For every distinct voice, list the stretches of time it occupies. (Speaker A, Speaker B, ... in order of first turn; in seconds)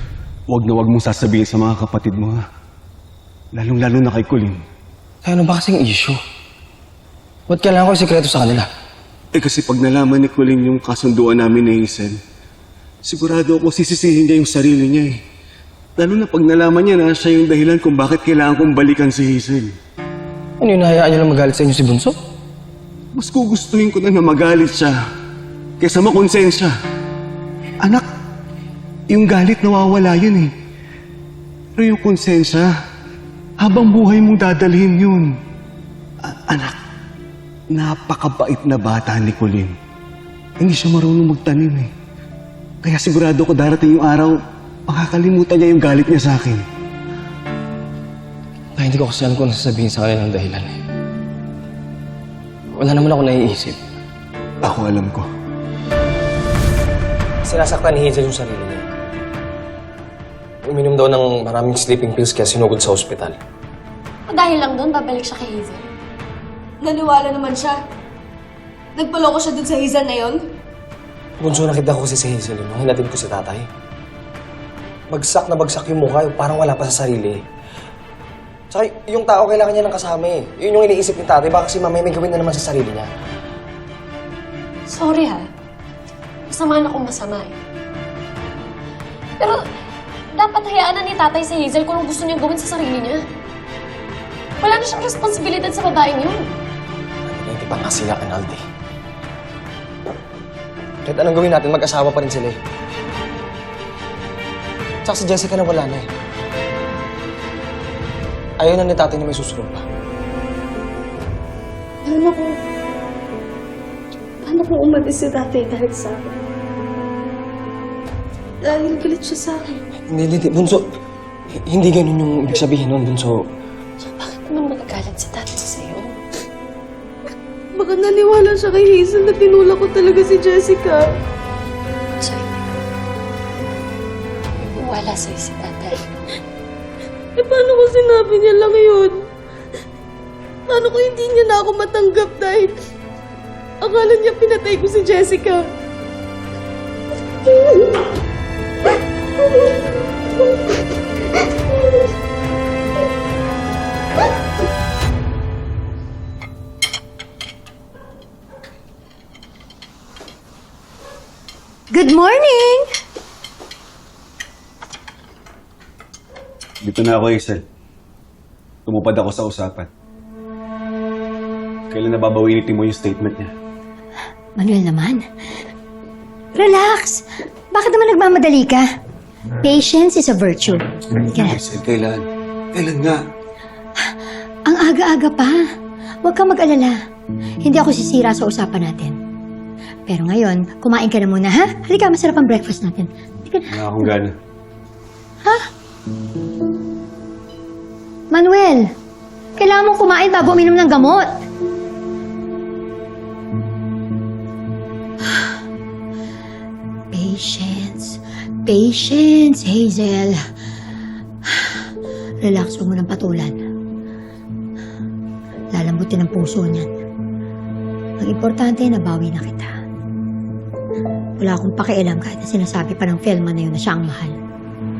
Speaker A: 0.5-2.4, 3.5-4.6, 9.3-12.2, 13.0-15.2, 16.0-19.7, 23.1-24.9, 25.8-26.7, 29.1-30.5, 31.8-32.7, 33.6-35.3, 36.2-36.8, 37.7-39.8, 40.6-41.9, 42.8-46.6, 54.6-55.2, 166.8-167.6, 168.8-169.9, 171.9-173.5, 181.5-183.2, 193.7-194.4
Speaker B: 5.2-6.2, 7.5-8.7, 20.6-22.2, 48.8-50.8, 52.7-53.8, 57.4-58.9, 60.6-63.4, 71.4-73.7, 75.1-77.4, 78.7-83.1, 97.3-98.6, 101.0-102.6, 105.0-106.1, 108.6-109.8, 120.1-120.8, 121.5-123.4
Speaker C: 64.3-65.8, 84.9-85.4, 86.5-87.5, 90.3-93.2, 94.6-96.5, 124.0-126.2, 132.2-132.5, 134.6-136.1
Speaker D: 66.8-67.8, 68.9-70.4, 112.0-112.6, 114.4-116.3, 118.6-119.8, 127.7-131.1, 137.4-139.2, 140.7-142.8, 143.8-145.6
Speaker E: 161.9-162.9, 174.6-175.2, 176.5-178.9, 179.6-181.6, 184.7-185.7, 186.2-187.0, 187.6-189.2, 190.1-194.1, 198.3-198.9, 199.6-201.3, 207.1-210.4, 211.5-211.9, 212.4-213.6, 215.7-216.9, 218.2-219.8, 221.4-224.4